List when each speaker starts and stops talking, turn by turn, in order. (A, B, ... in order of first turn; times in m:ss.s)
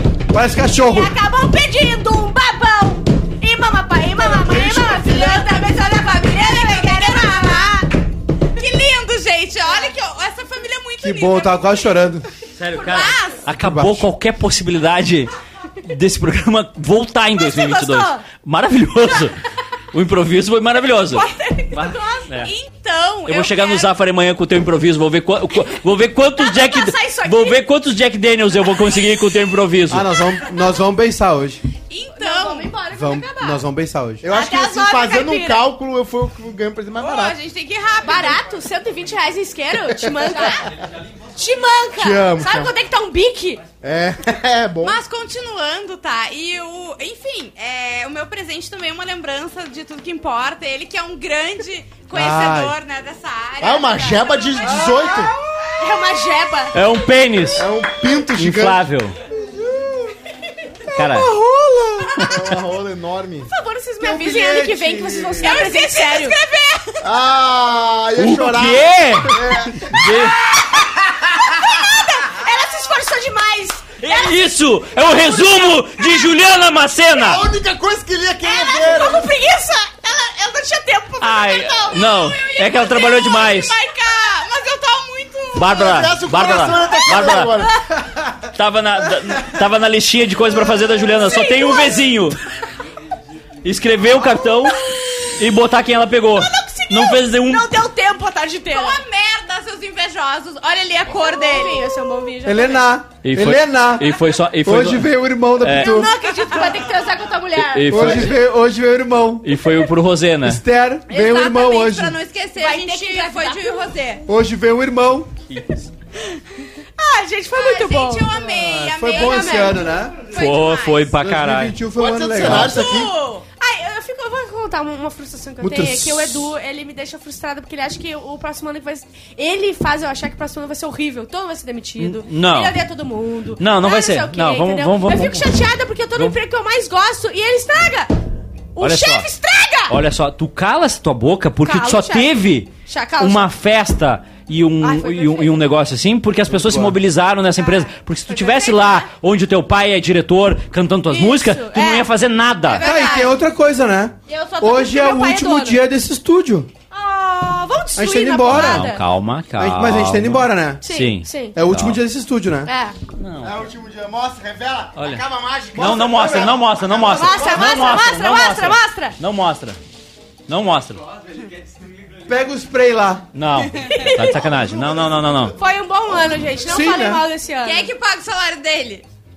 0:00.3-0:01.1 A
0:00.6-0:07.9 B
0:04.4-0:05.5 C
0:05.0-0:07.7 D
0:08.6-0:11.7 D
0:11.0-0:12.3 A
0:12.6-0:19.4 E
0:12.8-0:13.2 B
0:12.8-0:13.5 D
0:13.5-0:14.1 A
0:17.4-0:18.2 B
0:19.9-0:22.5 E
0:21.1-0:22.3 B
0:22.3-0:23.9 D
0:23.2-0:30.1 E
0:26.4-0:27.6 B
0:29.9-0:31.6 A
0:31.9-0:32.7 D
0:32.2-0:33.6 B
0:33.0-0:34.2 A
0:34.2-0:37.4 C
0:34.3-0:35.6 B
0:37.0-0:38.4 D
0:38.0-0:40.7 B
0:41.4-0:43.6 B
0:42.0-0:42.7 C
0:43.8-0:45.0 C
0:44.8-0:54.9 D
0:52.1-0:52.8 A
0:53.6-0:55.3 C
0:54.7-0:55.3 A
0:55.8-0:56.8 B
0:56.7-0:57.7 E
0:57.6-0:58.8 C
0:58.3-0:59.2 E
0:59.5-1:00.0 A
1:00.9-1:02.3 A
1:00.9-1:01.3 E
1:02.2-1:02.6 E
1:02.2-1:03.5 C
1:03.5-1:06.4 B
1:04.0-1:05.6 A
1:05.4-1:07.0 D
1:07.0-1:10.0 C
1:08.2-1:10.4 E
1:11.3-1:16.3 B
1:14.0-1:17.5 E
1:17.2-1:19.3 C
1:18.4-1:22.6 B
1:21.2-1:23.7 E
1:22.5-1:25.9 D
1:25.6-1:27.6 E
1:25.7-1:27.8 C
1:27.3-1:27.7 B
1:28.5-1:32.4 E
1:31.4-1:32.0 B
1:33.6-1:37.7 E
1:36.3-1:39.0 B
1:38.7-1:42.1 D
1:41.1-1:42.9 B
1:42.4-1:46.1 A
1:43.2-1:45.1 E
1:45.6-1:46.0 E
1:45.8-1:48.3 B
1:46.0-1:46.8 D
1:47.6-1:48.4 E
1:47.9-1:49.5 A
1:49.4-1:50.6 E
1:50.4-1:52.2 A
1:51.1-1:54.2 D
1:52.6-1:54.2 B
1:54.3-1:55.4 A
1:55.5-1:55.8 E
1:57.0-1:58.6 B
1:57.5-2:01.1 D
1:58.6-2:00.2 A
1:59.1-2:00.0 B
2:00.3-2:01.8 E
2:01.2-2:02.9 A
2:02.0-2:03.2 C
2:02.4-2:02.7 E
2:02.6-2:03.4 D
2:02.8-2:18.2 B
2:05.6-2:06.5 A
2:12.0-2:12.8 E
2:13.6-2:15.5 E
2:18.8-2:20.0 B
2:18.8-2:19.3 E
2:19.9-2:32.9 E
2:21.6-2:23.5 B
2:24.8-2:25.6 B
2:26.5-2:27.0 A
2:27.6-2:29.1 B
2:31.1-2:32.1 B
2:32.7-2:33.4 B
2:32.7-2:33.3 D
2:32.8-2:36.7 A
2:34.3-2:35.8 B
2:36.9-2:39.0 B
2:38.0-2:38.9 A
2:38.5-2:42.0 E
2:39.6-2:40.9 A
2:40.8-2:41.5 B
2:41.6-2:42.7 A
2:42.7-2:43.0 B
2:43.2-2:43.7 E
2:43.4-2:48.0 C
2:45.0-2:49.8 E
2:45.8-2:46.7 A
2:47.1-2:49.2 B
2:50.5-2:51.0 E
2:52.3-2:53.3 A
2:53.3-2:55.6 E
2:53.8-2:54.4 B
2:54.7-2:55.1 C
2:55.6-2:57.9 B
2:56.7-2:57.3 A
2:57.6-2:59.0 D